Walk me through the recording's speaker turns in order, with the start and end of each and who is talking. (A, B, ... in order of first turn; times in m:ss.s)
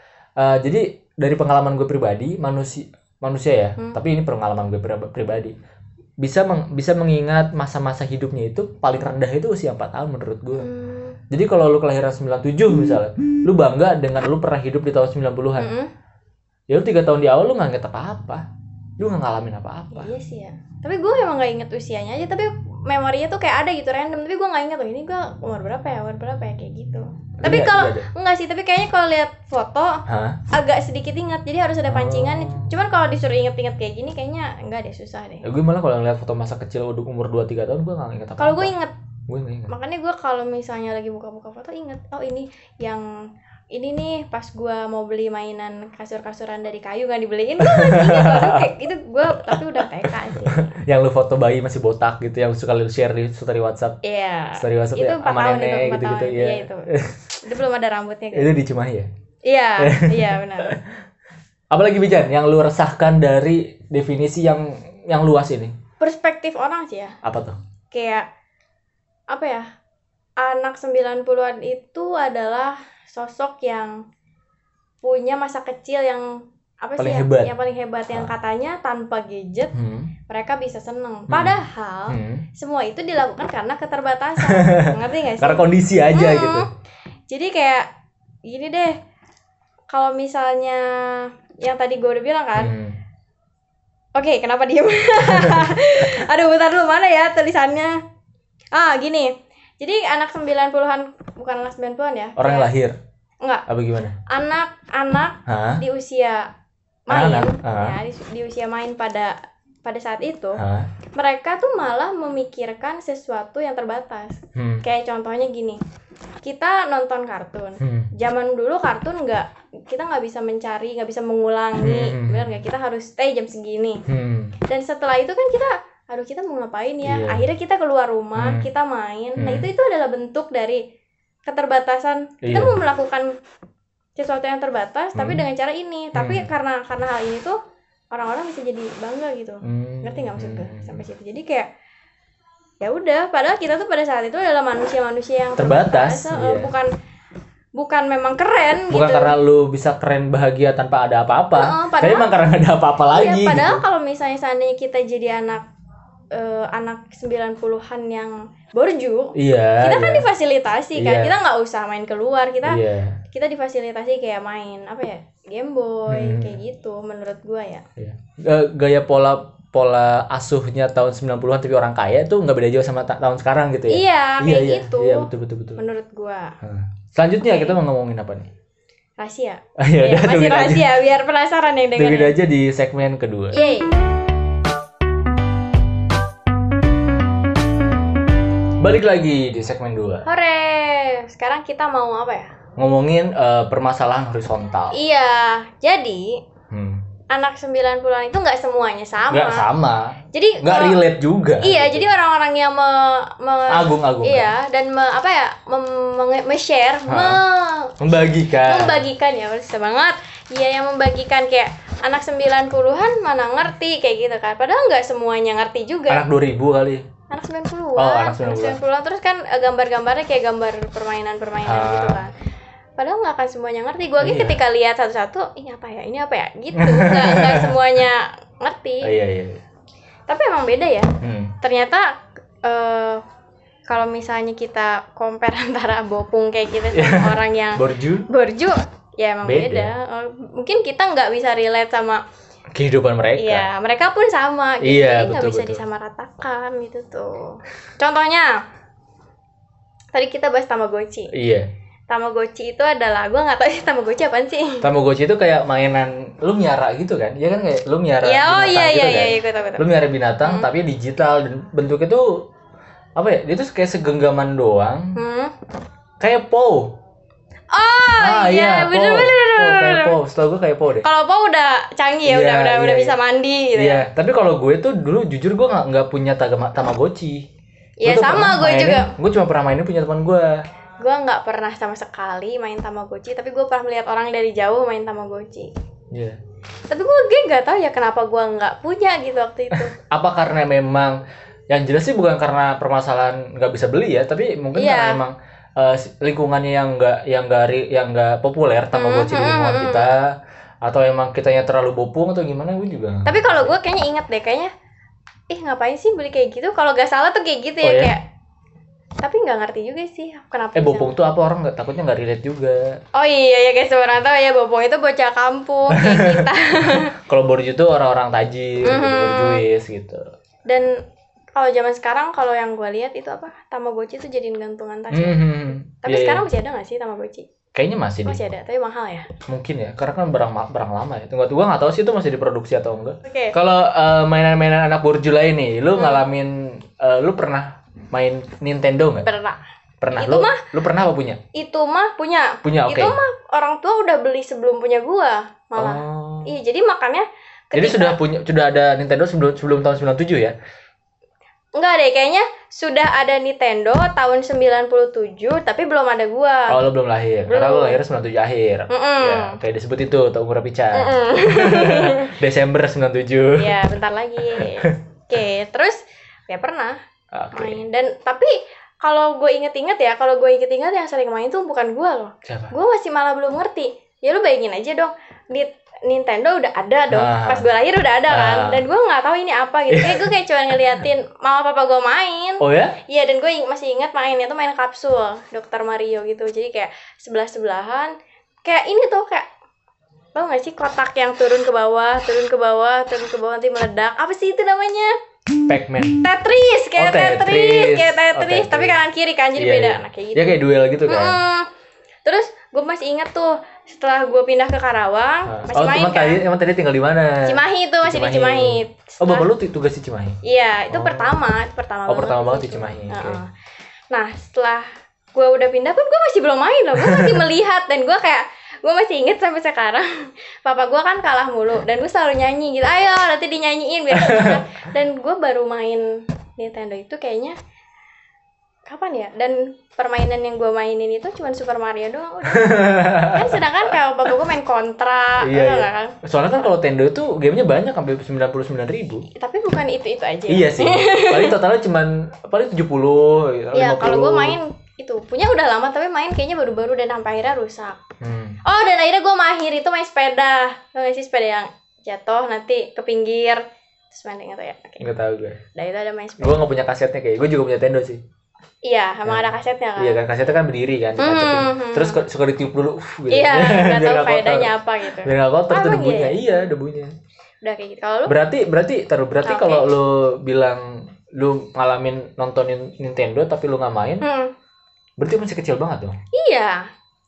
0:00.4-0:05.5 A
0:06.2-0:10.7 A
0:10.6-0:11.2 B
0:11.3-0:15.7 A
0:15.6-0:15.9 B
0:16.7-0:18.4 A
0:19.0-0:20.1 A
0:19.9-0:35.5 B
0:27.4-0:28.1 A
0:30.1-0:30.4 A
0:31.9-0:32.7 A
0:35.4-0:38.7 A
0:38.4-0:38.9 B
0:39.3-0:39.7 A
0:39.7-0:43.1 B
0:43.7-0:50.7 B
0:47.6-0:48.7 A
0:49.4-0:54.0 A
0:54.0-0:56.9 B
0:54.6-0:57.3 A
0:57.4-0:58.5 B
0:58.3-0:59.1 A
0:59.5-1:00.8 B
0:59.8-1:00.8 A
1:01.7-1:05.8 A
1:06.0-1:07.2 B
1:07.2-1:07.6 A
1:07.9-1:08.3 B
1:09.3-1:09.7 B
1:10.4-1:14.0 B
1:15.0-1:16.3 B
1:16.8-1:19.7 B
1:17.0-1:17.5 A
1:19.7-1:20.1 A
1:20.3-1:26.7 B
1:21.3-1:21.6 A
1:22.1-1:22.4 A
1:24.4-1:26.7 A
1:27.3-1:27.9 B
1:28.5-1:29.0 B
1:29.9-1:32.7 B
1:32.6-1:33.0 A
1:34.2-1:38.0 B
1:35.2-1:35.8 A
1:38.7-1:42.7 B
1:42.4-1:43.0 A
1:43.7-1:44.2 A
1:44.3-1:46.5 B
1:45.5-1:45.8 A
1:47.1-1:48.0 A
1:47.1-1:50.6 B
1:50.6-1:50.9 A
1:51.2-1:55.8 B
1:54.6-1:54.8 A
1:56.4-2:04.0 B
1:57.8-1:58.1 A
2:01.8-2:02.6 A
2:04.1-2:04.6 A
2:04.7-2:10.8 B
2:07.0-2:07.4 A
2:08.4-2:08.7 A
2:09.4-2:09.7 A
2:11.5-2:13.3 B
2:12.4-2:12.7 A
2:14.2-2:17.6 B
2:15.2-2:15.4 A
2:16.2-2:16.5 A
2:18.1-2:21.7 B
2:19.6-2:21.0 A
2:22.8-2:26.9 B
2:25.6-2:26.7 A
2:27.8-2:29.4 B
2:28.9-2:33.8 A
2:31.5-2:32.3 B
2:33.1-2:35.6 B
2:36.3-2:42.8 B
2:39.4-2:40.3 A
2:41.0-2:41.4 A
2:42.6-2:43.2 A
2:43.3-2:47.8 B
2:46.1-2:46.6 A
2:48.0-2:55.8 A
2:53.9-2:56.5 B
2:56.6-2:58.5 A
2:57.4-2:57.8 B
2:59.2-3:02.3 B
2:59.8-3:00.9 A
3:02.0-3:03.6 A
3:03.5-3:03.9 B
3:08.8-3:10.3 A
3:10.2-3:12.5 B
3:12.8-3:15.0 A
3:14.9-3:16.4 B
3:16.7-3:17.0 A
3:17.3-3:19.7 B
3:19.3-3:22.1 A
3:20.3-3:21.0 B
3:21.6-3:36.2 B
3:23.7-3:24.5 A
3:27.1-3:27.4 A
3:28.0-3:29.1 A
3:36.1-3:37.1 A
3:37.3-3:42.3 B
3:38.0-3:38.8 A
3:41.6-3:42.3 A
3:43.0-3:49.1 B
3:44.2-3:44.6 A
3:46.8-3:47.8 A
3:49.0-3:49.6 A
3:50.3-3:53.2 B
3:51.2-3:51.5 A
3:53.9-4:02.2 B
3:56.9-3:58.3 A
3:59.4-3:59.9 A
4:02.7-4:03.7 A
4:03.4-4:08.6 B
4:04.8-4:05.8 A
4:10.1-4:11.3 B
4:11.3-4:11.7 A
4:12.1-4:14.9 B
4:14.8-4:22.4 A
4:18.2-4:19.9 B
4:23.2-4:25.2 A
4:25.2-4:25.5 B
4:26.2-4:27.0 A
4:27.7-4:30.2 B
4:28.2-4:31.1 A
4:31.0-4:34.1 B
4:32.3-4:33.2 A
4:33.8-4:37.5 A
4:38.0-4:39.1 B
4:38.0-4:40.6 A
4:41.0-4:45.7 B
4:46.1-4:46.4 A
4:46.9-4:49.9 B
4:49.7-5:03.7 A
4:54.8-4:55.2 B
4:58.9-5:00.1 B
5:03.2-5:04.7 B
5:05.5-5:08.2 B
5:07.8-5:08.1 A
5:09.2-5:11.1 B
5:10.8-5:13.0 A
5:13.2-5:17.1 B
5:15.9-5:20.2 A
5:18.8-5:19.6 B
5:21.6-5:27.5 B
5:25.1-5:26.4 A
5:27.8-5:28.4 A
5:28.2-5:29.3 B
5:29.5-5:39.3 A
5:33.2-5:33.6 B
5:36.0-5:36.3 B
5:39.2-5:39.6 B
5:40.0-5:41.4 A
5:40.1-5:40.7 B
5:41.5-5:48.2 B
5:42.6-5:43.2 A
5:45.8-5:46.5 A
5:47.7-5:50.6 A
5:51.8-5:56.8 B
5:56.7-6:03.8 A
5:57.5-5:58.0 B
5:58.9-5:59.6 B
6:00.9-6:02.3 B
6:03.6-6:07.0 B
6:04.5-6:05.0 A
6:07.3-6:07.8 A
6:07.5-6:28.1 B
6:12.4-6:12.7 A
6:17.1-6:17.7 A
6:18.3-6:18.8 A
6:19.9-6:20.3 A
6:22.6-6:23.0 A
6:28.6-6:29.5 B
6:30.4-6:35.2 B
6:35.7-6:36.2 A
6:36.2-6:41.7 B
6:37.0-6:39.0 A
6:39.6-6:41.4 A
6:42.3-6:46.4 B
6:45.5-6:50.4 A
6:47.4-6:49.5 B
6:50.4-6:53.5 B
6:50.9-6:51.4 A
6:52.1-6:53.4 A
6:54.1-7:07.6 B
6:57.0-6:57.4 A
7:04.1-7:04.6 A
7:08.9-7:16.2 B
7:12.5-7:13.6 A
7:15.4-7:19.3 A
7:19.3-7:21.6 B
7:20.5-7:24.6 A
7:23.7-7:28.0 B
7:28.2-7:28.6 A
7:28.6-7:35.1 B
7:35.0-7:35.6 A
7:35.8-7:36.6 B
7:36.4-7:38.2 A
7:38.8-7:40.2 B
7:39.2-7:47.1 A
7:41.2-7:42.2 B
7:43.3-7:46.7 B
7:47.6-7:48.3 B
7:48.3-7:54.2 A
7:49.4-7:49.9 B
7:54.2-7:54.5 B
7:55.2-7:56.2 A
7:56.3-7:56.9 B